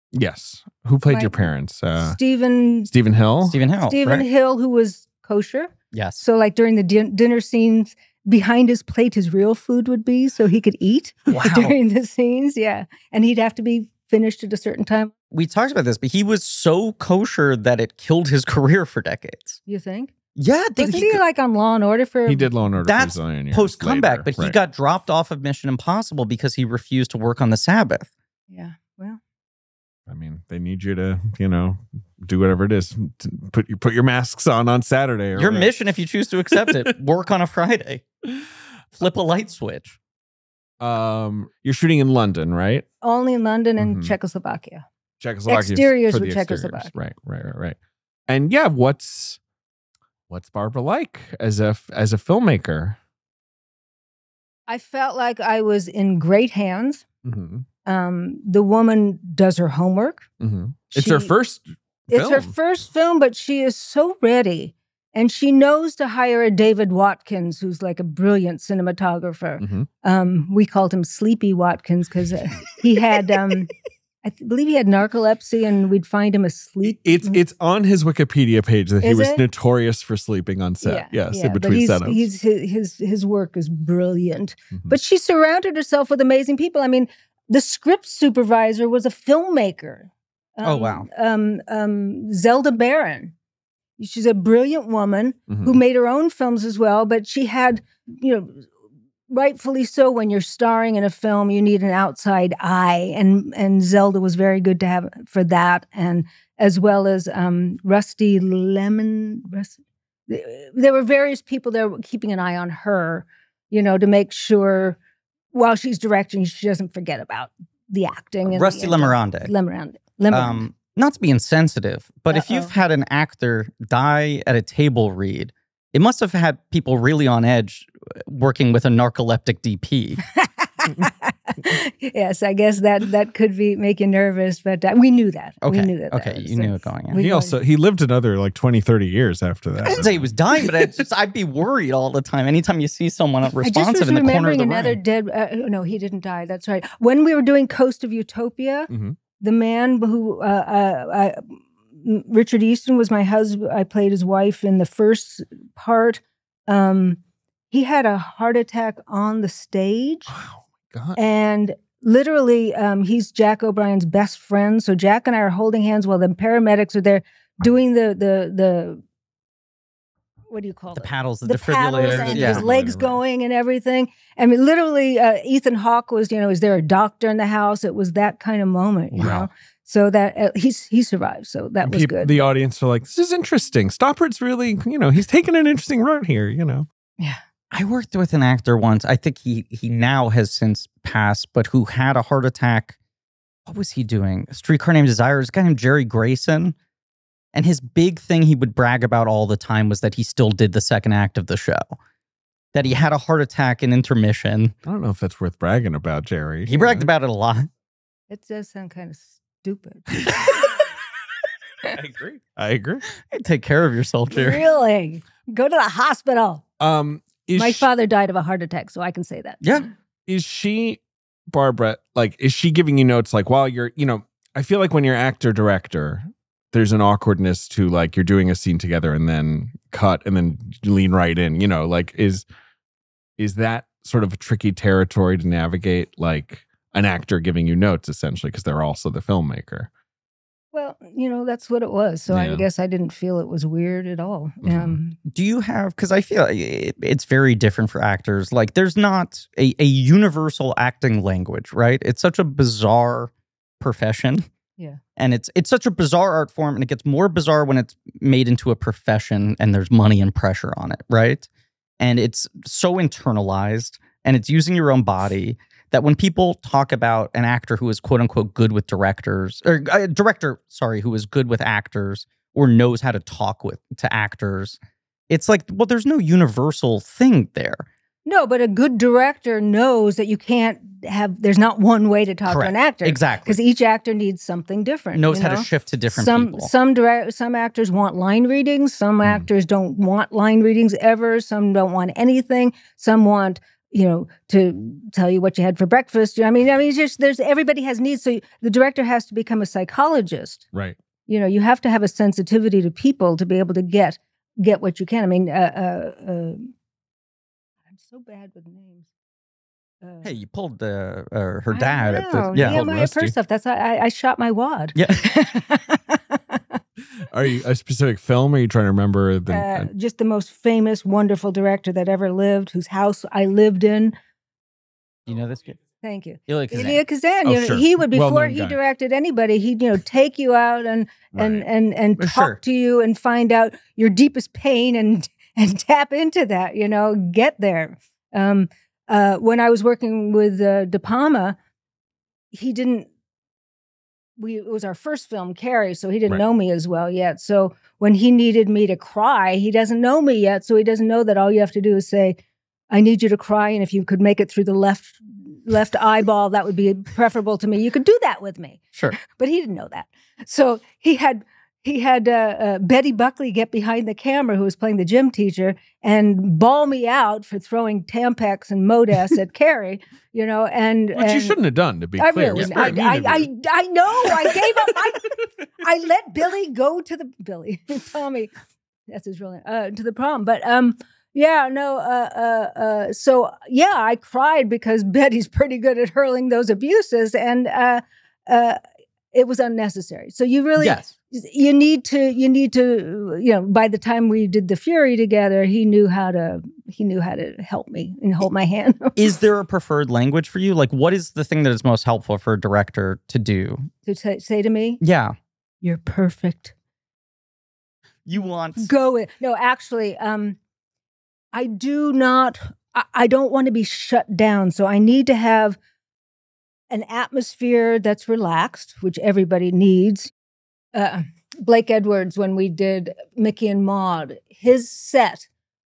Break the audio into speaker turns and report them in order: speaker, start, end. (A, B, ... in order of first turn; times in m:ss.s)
0:00.1-0:02.2 A
0:01.1-0:01.4 B
0:02.0-0:02.9 B
0:02.9-0:03.6 A
0:03.4-0:04.2 C
0:03.8-0:15.1 B
0:05.9-0:06.2 C
0:11.3-0:11.7 C
0:15.3-0:19.6 C
0:19.6-0:20.1 B
0:20.4-0:21.2 C
0:20.8-0:22.5 B
0:22.2-0:24.6 A
0:22.8-0:28.1 C
0:28.5-0:29.2 B
0:30.1-0:35.7 A
0:35.4-0:38.0 C
0:36.5-0:36.9 A
0:39.0-0:40.0 C
0:40.8-0:42.8 A
0:43.0-0:44.8 B
0:43.8-0:44.1 A
0:45.2-0:47.8 A
0:45.5-0:46.9 B
0:48.3-0:49.4 A
0:50.3-0:53.0 A
0:54.7-0:57.0 B
0:57.2-0:57.6 A
0:57.8-1:00.2 B
1:00.4-1:02.5 A
1:00.9-1:01.3 B
1:02.1-1:13.7 B
1:09.6-1:09.9 A
1:14.2-1:17.4 B
1:16.8-1:22.3 A
1:19.0-1:19.4 B
1:20.8-1:33.3 B
1:24.7-1:25.0 A
1:30.6-1:31.1 C
1:34.0-1:38.7 B
1:35.5-1:35.8 A
1:39.3-1:55.0 B
1:55.5-2:00.6 B
1:58.5-1:59.5 C
2:00.3-2:10.2 C
2:02.3-2:02.7 B
2:10.3-2:17.6 B
2:15.6-2:17.2 C
2:17.1-2:20.3 A
2:19.9-2:25.0 C
2:23.6-2:37.2 B
2:28.9-2:29.2 A
2:37.7-2:40.3 B
2:40.3-2:41.2 A
2:41.2-2:49.0 B
2:50.5-3:02.4 B
2:50.9-2:52.6 C
2:51.9-2:53.2 A
2:59.2-2:59.5 C
3:01.8-3:06.9 A
3:07.7-3:13.0 C
3:13.6-3:16.8 C
3:17.5-3:22.0 C
3:22.7-3:24.7 C
3:24.8-3:27.1 A
3:26.7-3:27.7 C
3:28.3-3:30.7 B
3:31.9-3:33.0 A
3:33.2-3:34.6 C
3:34.3-3:36.6 B
3:36.8-3:37.9 A
3:37.6-3:39.8 B
3:39.6-3:39.9 C
3:40.3-3:52.4 A
3:53.4-3:59.9 A
4:00.7-4:05.2 B
4:02.3-4:02.6 A
4:04.6-4:05.0 A
4:05.2-4:14.4 C
4:15.2-4:21.5 C
4:22.0-4:34.8 C
4:35.3-4:37.9 C
4:38.2-5:00.6 B
4:42.4-4:43.6 C
4:45.1-4:46.7 C
5:01.3-5:06.7 B
5:07.9-5:09.0 B
5:10.0-5:10.3 B
5:10.2-5:12.8 C
5:11.7-5:16.8 B
5:12.3-5:13.3 A
5:14.9-5:15.2 C
5:17.2-5:19.9 A
5:19.5-5:24.1 B
5:25.3-5:25.8 C
5:26.0-5:41.6 B
5:26.5-5:27.0 C
5:27.4-5:28.8 A
5:31.3-5:31.6 A
5:32.2-5:32.6 C
5:42.5-5:43.1 B
5:44.4-5:52.4 B
5:52.9-6:11.6 B
6:11.1-6:13.5 A
6:12.2-6:18.5 B
6:14.2-6:14.7 A
6:19.1-6:28.8 B
6:29.3-6:39.2 B
6:30.8-6:31.1 C
6:39.2-6:43.9 C
6:44.0-6:45.0 B
6:45.0-6:45.3 C
6:45.8-6:46.7 B
6:48.2-6:48.9 C
6:48.8-6:50.6 B
6:51.5-6:55.8 B
6:56.9-7:00.3 B
7:00.9-7:05.5 B